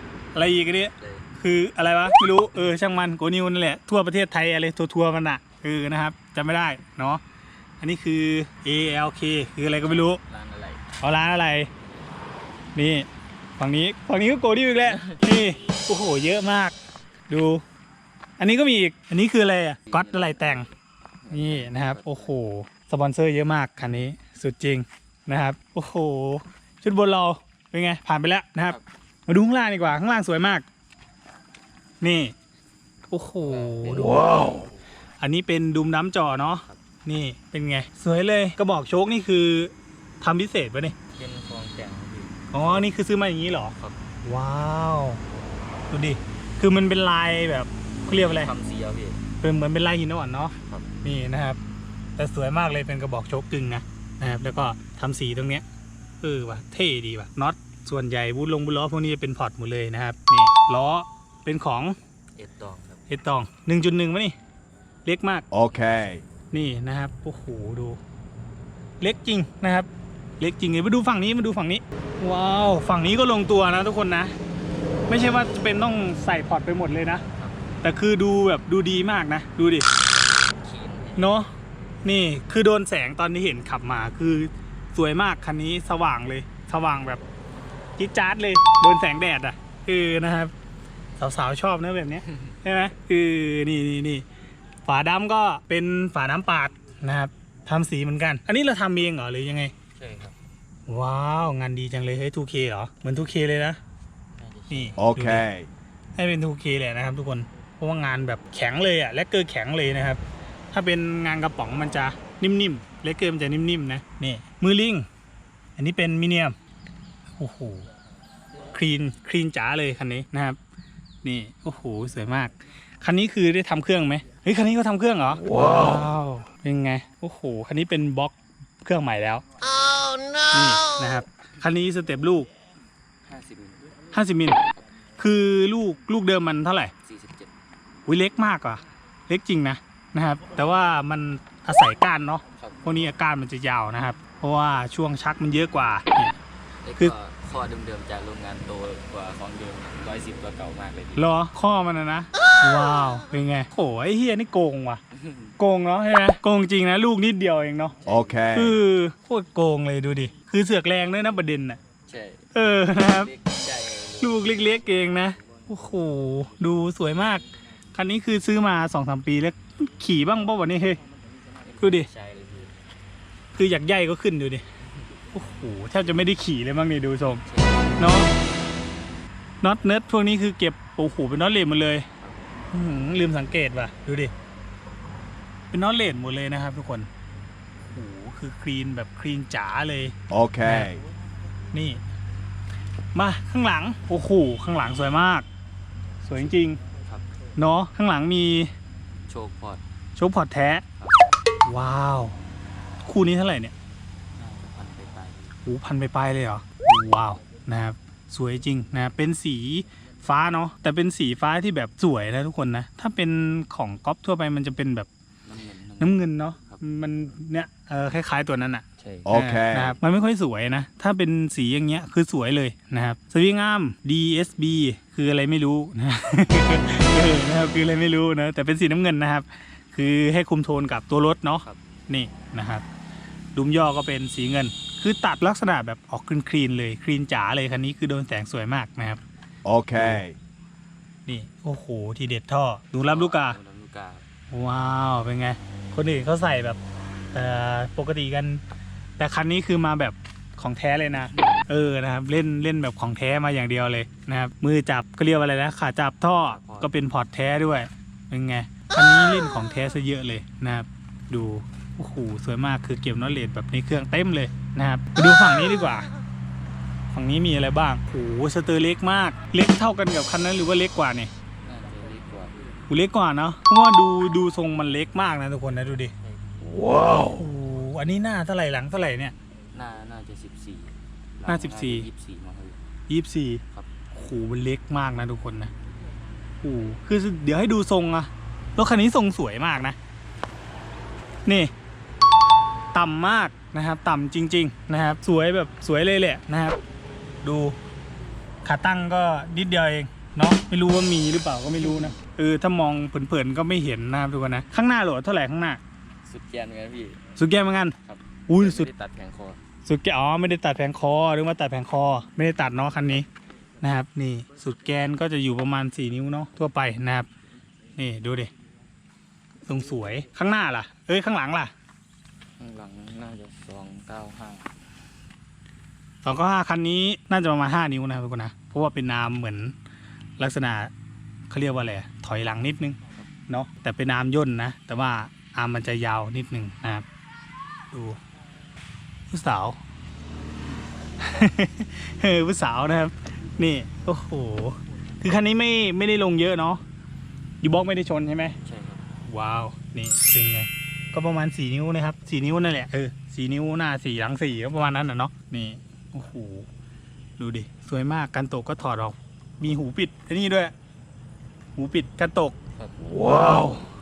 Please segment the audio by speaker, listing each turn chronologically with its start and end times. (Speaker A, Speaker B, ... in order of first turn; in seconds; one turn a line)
Speaker A: 0.3-7.2
Speaker B: 1.0-1.3
Speaker A: 7.8-10.2
Speaker B: 9.8-10.8
Speaker A: 11.0-11.7
Speaker A: 12.7-13.1
Speaker A: 13.6-16.7
Speaker B: 14.8-15.2
Speaker A: 17.3-17.6
Speaker A: 18.4-20.7
Speaker B: 19.9-22.3
Speaker A: 21.3-30.6
Speaker A: 32.0-32.3
Speaker A: 33.1-34.4
Speaker B: 33.4-34.8
Speaker A: 35.2-41.0
Speaker B: 41.1-42.9
Speaker A: 42.5-45.2
Speaker A: 45.9-48.5
Speaker B: 48.0-49.2
Speaker A: 49.4-51.6
Speaker B: 50.6-50.9
Speaker A: 52.2-55.6
Speaker A: 56.2-62.0
Speaker B: 62.4-63.0
Speaker A: 63.1-64.3
Speaker A: 65.0-65.5
Speaker C: 65.5-66.2
Speaker A: 66.5-68.0
Speaker A: 69.0-69.9
Speaker A: 70.4-74.3
Speaker A: 75.1-77.2
Speaker B: 77.3-77.8
Speaker A: 77.8-79.9
Speaker B: 80.6-81.5
Speaker A: 81.2-81.5
Speaker A: 82.0-87.2
Speaker A: 88.0-90.5
Speaker A: 91.2-94.2
Speaker A: 94.8-99.7
Speaker B: 99.9-100.4
Speaker A: 100.9-103.8
Speaker B: 104.4-105.2
Speaker A: 104.7-105.5
Speaker C: 105.0-105.7
Speaker A: 106.2-110.2
Speaker A: 110.7-115.1
Speaker A: 115.8-116.5
Speaker A: 117.4-117.9
Speaker A: 118.7-120.6
Speaker A: 121.2-129.4
Speaker A: 130.5-132.5
Speaker B: 133.2-133.9
Speaker A: 134.1-134.6
Speaker A: 135.2-136.9
Speaker B: 137.0-137.5
Speaker A: 138.1-146.3
Speaker B: 142.6-143.1
Speaker B: 146.8-151.3
Speaker A: 151.2-155.0
Speaker B: 155.1-155.5
Speaker A: 155.6-157.9
Speaker B: 158.0-158.6
Speaker C: 158.1-158.8
Speaker A: 158.5-161.8
Speaker B: 162.1-165.1
Speaker A: 162.5-163.3
Speaker A: 164.2-171.0
Speaker B: 171.5-172.7
Speaker A: 171.8-172.1
Speaker A: 173.6-174.6
Speaker A: 175.3-177.4
Speaker B: 177.4-178.2
Speaker A: 178.0-178.3
Speaker A: 179.6-182.1
Speaker B: 182.2-182.4
Speaker A: 182.7-184.3
Speaker A: 185.7-187.1
Speaker A: 187.9-191.0
Speaker C: 190.3-191.0
Speaker A: 191.7-192.0
Speaker A: 193.1-195.4
Speaker A: 196.2-196.8
Speaker A: 197.6-198.7
Speaker B: 199.3-199.8
Speaker A: 200.2-200.8
Speaker B: 201.0-201.3
Speaker A: 201.7-202.4
Speaker A: 203.0-203.7
Speaker B: 204.4-205.6
Speaker A: 205.6-215.1
Speaker B: 215.4-216.8
Speaker A: 216.0-232.8
Speaker B: 219.0-219.4
Speaker C: 219.2-219.9
Speaker A: 233.5-239.2
Speaker C: 239.6-240.3
Speaker A: 239.9-240.3
Speaker A: 241.2-243.6
Speaker B: 243.0-244.2
Speaker A: 244.5-246.8
Speaker A: 247.3-248.6
Speaker A: 249.2-266.1
Speaker B: 251.3-251.7
Speaker B: 256.4-257.0
Speaker A: 267.1-271.3
Speaker B: 271.6-272.7
Speaker A: 272.9-276.1
Speaker B: 276.2-277.3
Speaker A: 277.0-279.3
Speaker B: 279.7-282.8
Speaker A: 281.5-282.1
Speaker A: 283.1-283.6
Speaker A: 284.1-285.7
Speaker A: 286.6-289.9
Speaker A: 291.4-291.7
Speaker A: 292.9-296.8
Speaker A: 297.4-297.8
Speaker A: 298.6-305.8
Speaker B: 301.8-302.1
Speaker B: 306.2-307.3
Speaker A: 307.4-307.9
Speaker B: 308.0-309.6
Speaker A: 308.5-308.9
Speaker A: 309.8-313.3
Speaker A: 313.8-317.3
Speaker A: 317.9-318.5
Speaker A: 319.6-321.7
Speaker B: 322.6-324.8
Speaker A: 326.2-329.7
Speaker A: 330.4-330.9
Speaker A: 331.5-337.1
Speaker A: 337.9-338.2
Speaker A: 339.3-339.8
Speaker A: 341.2-346.8
Speaker A: 347.6-348.6
Speaker B: 348.6-349.1
Speaker A: 349.2-356.7
Speaker A: 357.4-360.7
Speaker A: 361.8-362.6
Speaker B: 362.7-363.8